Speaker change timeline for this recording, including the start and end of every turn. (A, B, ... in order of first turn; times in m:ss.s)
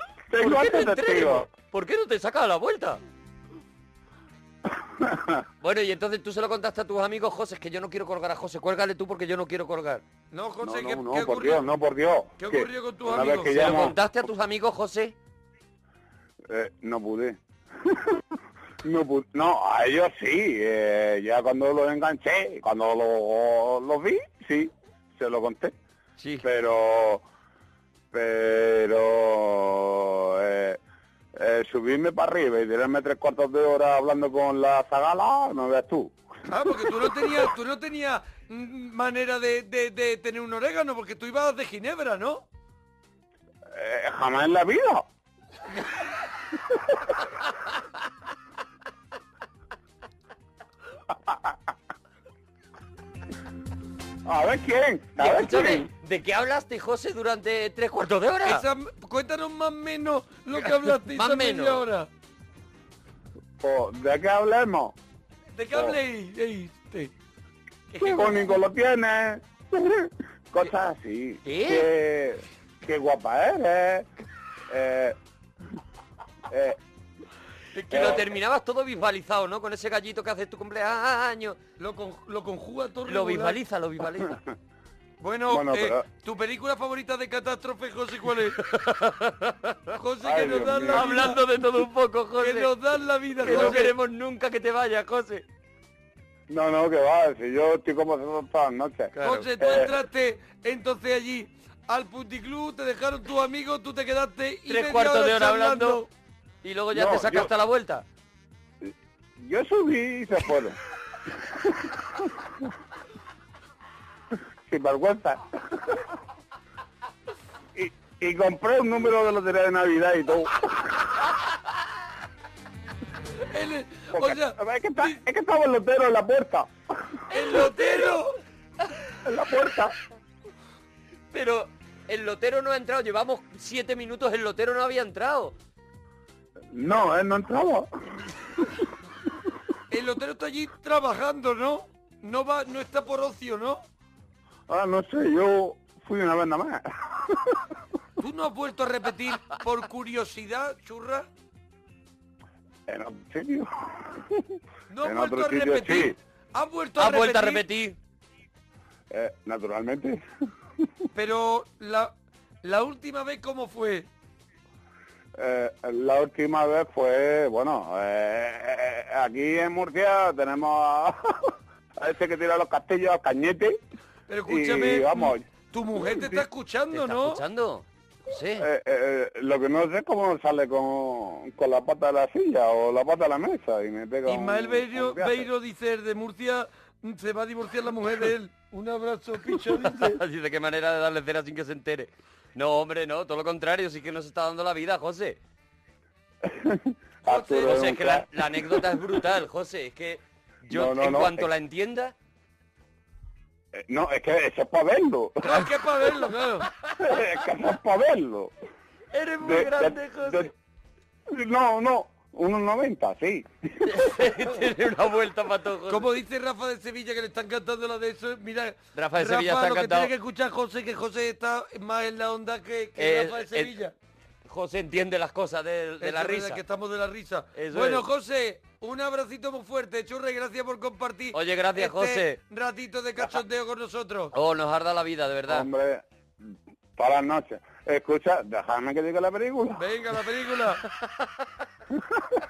0:00.3-0:01.5 A
0:00.4-0:03.0 B
0:05.0-0:05.4 A
0:05.6-0:10.0 B
0:10.3-0:11.6 C
0:10.6-0:14.0 A
0:12.4-0:13.7 C
0:13.5-0:15.1 B
0:16.5-0:18.2 A
0:18.8-0:25.8 A
0:26.2-0:26.4 B
0:26.4-0:27.2 A
0:28.1-0:30.8 A
0:31.4-0:36.2 A
0:36.5-0:42.4 C
0:43.7-0:45.0 A
0:54.3-0:55.9 A
0:55.2-0:58.6 B
0:58.4-1:02.1 C
1:00.6-1:01.8 B
1:03.6-1:05.0 A
1:05.6-1:07.1 C
1:07.9-1:08.6 C
1:08.0-1:14.1 A
1:11.4-1:11.9 B
1:14.7-1:15.2 A
1:16.5-1:16.8 A
1:17.8-1:21.6 B
1:17.9-1:18.2 A
1:21.8-1:23.6 C
1:23.1-1:24.4 B
1:25.2-1:28.6 C
1:25.5-1:26.0 A
1:28.6-1:29.5 B
1:30.0-1:31.4 C
1:30.2-1:31.0 A
1:30.8-1:32.7 B
1:32.4-1:33.9 C
1:33.4-1:35.4 B
1:36.5-1:39.9 A
1:39.2-1:39.5 B
1:39.2-1:46.1 C
1:44.7-1:46.0 B
1:46.6-1:48.0 B
1:46.9-1:47.5 A
1:49.4-1:50.8 A
1:54.7-1:55.4 A
1:57.8-2:00.8 A
2:03.5-2:05.2 C
2:04.1-2:06.7 A
2:07.3-2:08.3 C
2:09.2-2:09.9 A
2:11.3-2:15.5 B
2:16.7-2:17.9 A
2:19.9-2:23.8 C
2:24.7-2:27.6 A
2:28.2-2:31.3 C
2:32.9-2:34.4 A
2:34.9-2:37.6 C
2:35.0-2:36.2 A
2:37.0-2:38.0 B
2:39.1-2:40.2 A
2:41.1-2:44.1 C
2:45.4-2:53.8 A
2:54.3-2:57.4 C
2:54.5-2:55.4 A
2:56.0-2:56.4 A
2:56.9-2:58.7 B
2:58.6-3:05.5 A
3:04.3-3:10.2 C
3:09.6-3:15.4 B
3:16.4-3:18.3 A
3:17.2-3:17.9 C
3:17.6-3:22.1 B
3:20.7-3:21.5 A
3:23.8-3:25.6 A
3:25.4-3:26.7 C
3:27.0-3:28.5 A
3:29.1-3:30.5 B
3:29.4-3:30.5 A
3:31.3-3:33.5 A
3:33.8-3:36.1 B
3:35.9-3:43.9 C
3:39.0-3:40.1 B
3:43.0-3:43.7 B
3:44.5-3:46.6 B
3:46.0-3:54.3 C
3:47.6-3:48.0 B
3:51.3-3:52.4 B
3:54.3-3:55.7 B
3:55.5-3:56.0 A
3:57.0-3:59.8 A
3:59.8-4:00.8 C